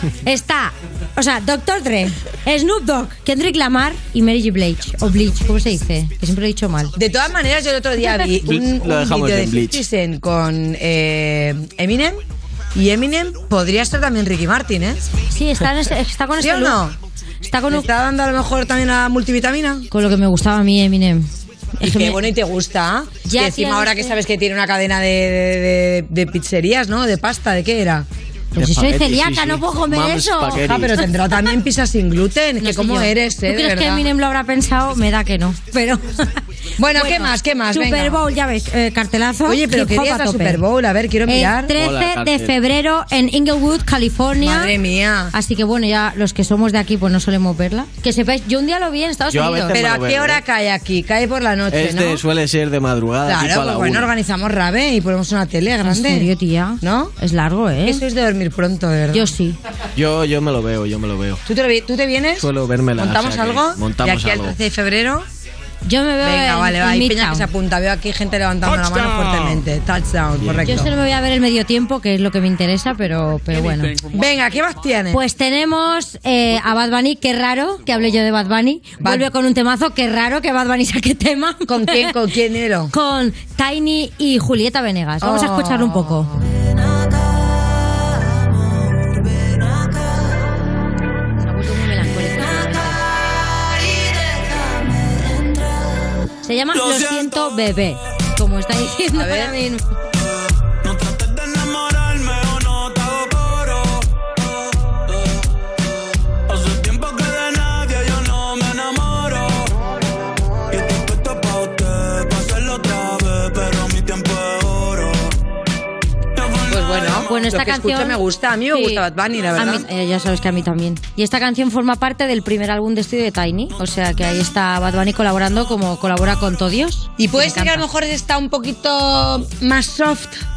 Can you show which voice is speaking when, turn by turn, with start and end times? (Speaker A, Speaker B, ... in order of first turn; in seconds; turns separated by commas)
Speaker A: 0.2-7.0, Speaker B: 7.0-12.2, Speaker C: 8.4-9.8, Speaker B: 12.8-15.0, Speaker A: 15.3-16.8, Speaker B: 16.4-17.0, Speaker A: 17.4-17.9, Speaker B: 17.7-19.9, Speaker A: 19.9-22.2, Speaker B: 21.8-28.1, Speaker A: 23.2-24.2, Speaker A: 28.6-30.7, Speaker C: 28.6-31.1, Speaker B: 30.6-34.0, Speaker A: 32.6-36.4, Speaker B: 36.8-38.2, Speaker A: 36.9-40.6, Speaker B: 39.5-41.7, Speaker A: 41.3-44.7, Speaker C: 41.7-42.5, Speaker B: 44.4-45.3, Speaker A: 45.3-49.8, Speaker C: 49.3-50.4, Speaker B: 49.7-52.2, Speaker C: 51.7-54.1, Speaker B: 53.3-56.3, Speaker A: 55.8-58.0, Speaker B: 56.8-57.1, Speaker B: 57.9-59.3, Speaker A: 59.1-59.6, Speaker C: 60.0-61.4, Speaker B: 61.5-65.3, Speaker C: 62.4-64.6, Speaker A: 65.8-67.5, Speaker B: 66.2-70.9, Speaker C: 70.4-70.7, Speaker A: 70.6-74.0, Speaker B: 74.1-75.2, Speaker A: 75.1-82.1, Speaker B: 81.7-82.9, Speaker A: 82.9-86.3, Speaker B: 85.2-86.1, Speaker A: 91.4-93.0, Speaker A: 96.4-99.8, Speaker D: 96.8-97.3, Speaker B: 99.2-99.5, Speaker D: 100.8-104.3, Speaker D: 106.5-109.7, Speaker D: 110.7-115.3, Speaker D: 116.4-117.3, Speaker B: 116.7-119.8, Speaker A: 117.2-118.2, Speaker A: 118.7-127.8, Speaker B: 127.2-130.4